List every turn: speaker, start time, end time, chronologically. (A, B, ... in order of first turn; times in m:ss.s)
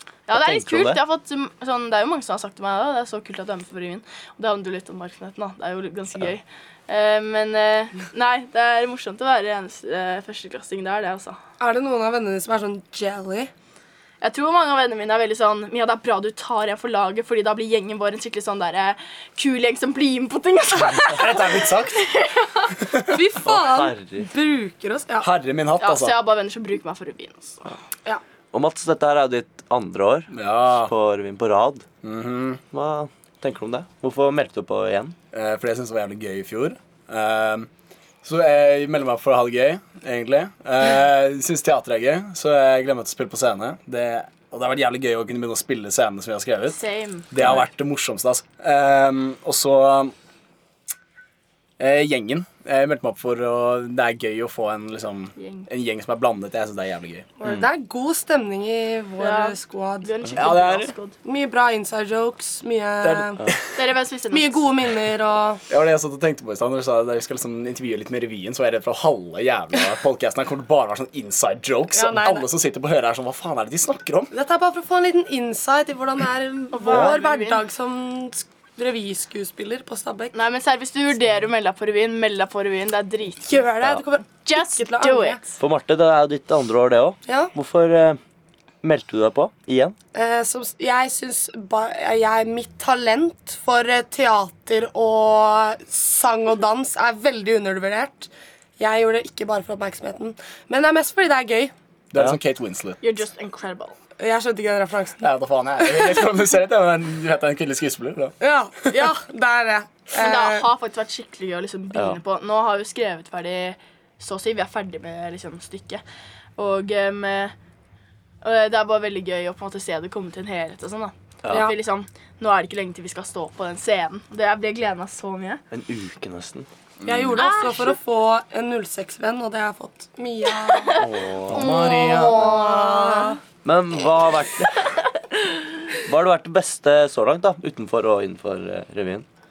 0:00.3-0:11.4 A
0:00.3-0:01.0 B
0:11.6-0:13.5 C
0:14.2-0:22.8 A
0:20.9-0:22.1 D
0:22.8-0:23.2 D
0:23.1-0:25.3 C
0:23.4-0:24.3 B
0:25.2-0:26.2 D
0:25.8-0:27.7 A
0:28.5-0:31.8 B
0:30.3-0:30.9 D
0:32.0-0:32.6 D
0:32.7-0:35.2 B
0:35.3-0:37.7 D
0:38.2-0:46.8 D
0:46.7-0:47.3 A
0:47.3-0:50.1 D
0:51.8-0:57.3 D
0:55.4-0:55.7 A
0:57.4-1:00.1 C
0:59.2-1:01.2 A
1:00.4-1:00.9 D
1:01.2-1:03.4 C
1:03.0-1:03.6 D
1:03.8-1:04.7 A
1:04.3-1:05.6 C
1:05.7-1:14.3 D
1:11.9-1:12.5 C
1:14.3-1:20.3 C
1:16.7-1:17.6 A
1:20.3-1:23.7 A
1:23.5-1:25.6 C
1:24.4-1:25.4 A
1:25.6-1:28.2 B
1:27.3-1:27.5 C
1:28.8-1:30.0 B
1:30.1-1:41.7 C
1:42.1-1:43.2 D
1:43.0-1:44.0 A
1:44.2-1:45.3 C
1:45.2-1:48.4 D
1:45.9-1:46.2 C
1:48.4-1:50.7 C
1:50.2-1:56.0 A
1:51.9-1:52.2 B
1:56.6-1:57.6 A
1:58.4-2:05.6 A
2:01.4-2:01.7 B
2:01.5-2:01.8 C
2:05.7-2:06.7 B
2:07.0-2:07.4 D
2:07.1-2:11.0 C
2:07.4-2:08.0 A
2:10.7-2:13.4 A
2:11.0-2:11.6 B
2:11.5-2:12.6 D
2:11.8-2:13.4 C
2:13.6-2:14.8 B
2:16.0-2:19.2 B